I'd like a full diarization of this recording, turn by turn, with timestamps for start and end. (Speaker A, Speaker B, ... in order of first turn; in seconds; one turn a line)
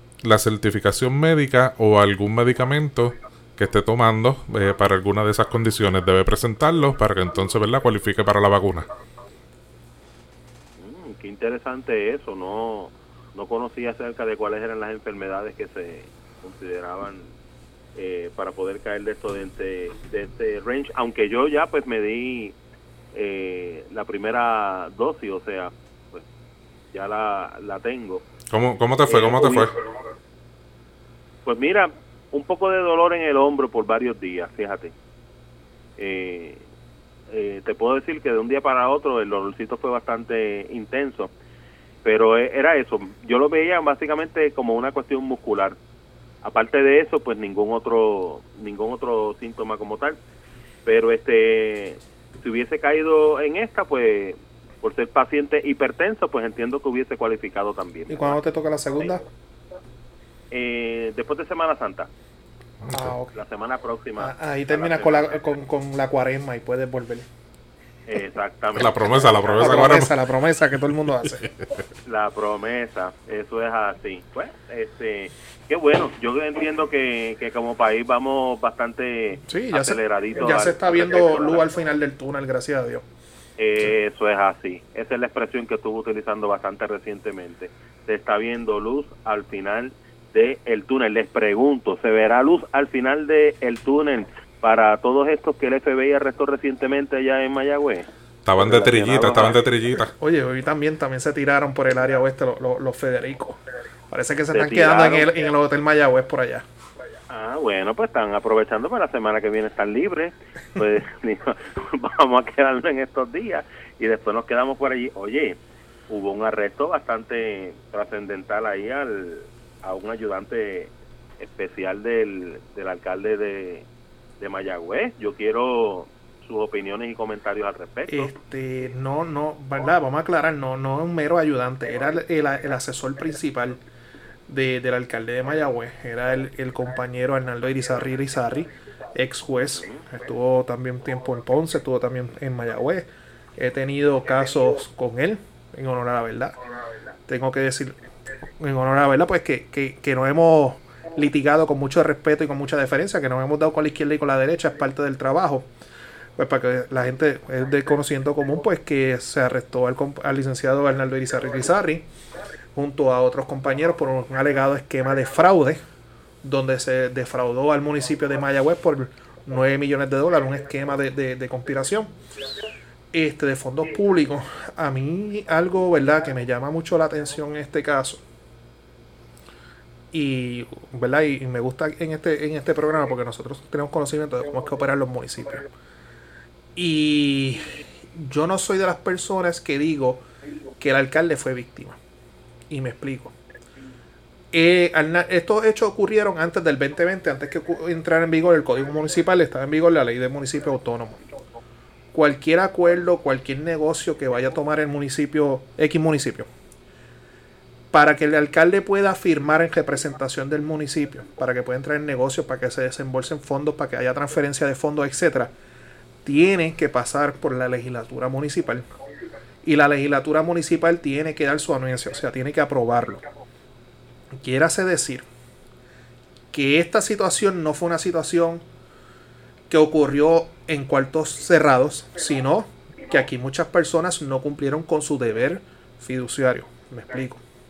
Speaker A: 0.2-8.9
Speaker B: 10.8-17.3
Speaker B: 17.9-22.6
Speaker B: 23.1-26.2
Speaker B: 26.9-28.2
Speaker A: 28.5-29.7
Speaker B: 29.1-29.7
Speaker B: 31.4-34.9
Speaker B: 36.0-36.6
Speaker B: 37.3-41.3
Speaker B: 42.0-45.8
Speaker B: 46.4-50.2
Speaker B: 50.8-58.4
Speaker C: 58.1-59.2
Speaker B: 60.5-62.1
Speaker A: 62.8-63.1
Speaker C: 62.9-63.3
Speaker B: 63.3-65.3
Speaker C: 64.2-67.3
Speaker B: 68.1-69.9
Speaker A: 68.7-70.1
Speaker C: 69.6-71.5
Speaker B: 72.0-81.6
Speaker C: 79.4-83.0
Speaker B: 83.6-99.6
Speaker A: 98.4-100.1
Speaker C: 100.2-103.6
Speaker C: 104.1-106.6
Speaker B: 104.5-105.3
Speaker B: 107.3-123.9
Speaker B: 124.4-128.3
Speaker C: 128.1-133.8
Speaker C: 134.5-146.6
Speaker B: 139.8-140.0
Speaker C: 147.3-148.0
Speaker C: 148.6-155.7
Speaker C: 156.4-162.1
Speaker C: 162.7-165.8
Speaker C: 166.4-172.1
Speaker C: 173.1-178.2
Speaker C: 180.1-185.7
Speaker C: 186.8-190.2
Speaker C: 190.8-192.0
Speaker C: 192.7-193.3
Speaker C: 194.5-201.2
Speaker C: 202.1-206.5
Speaker C: 207.9-215.5
Speaker C: 216.2-218.8
Speaker C: 219.6-223.2
Speaker C: 224.3-225.2
Speaker C: 226.5-228.6
Speaker C: 229.7-237.4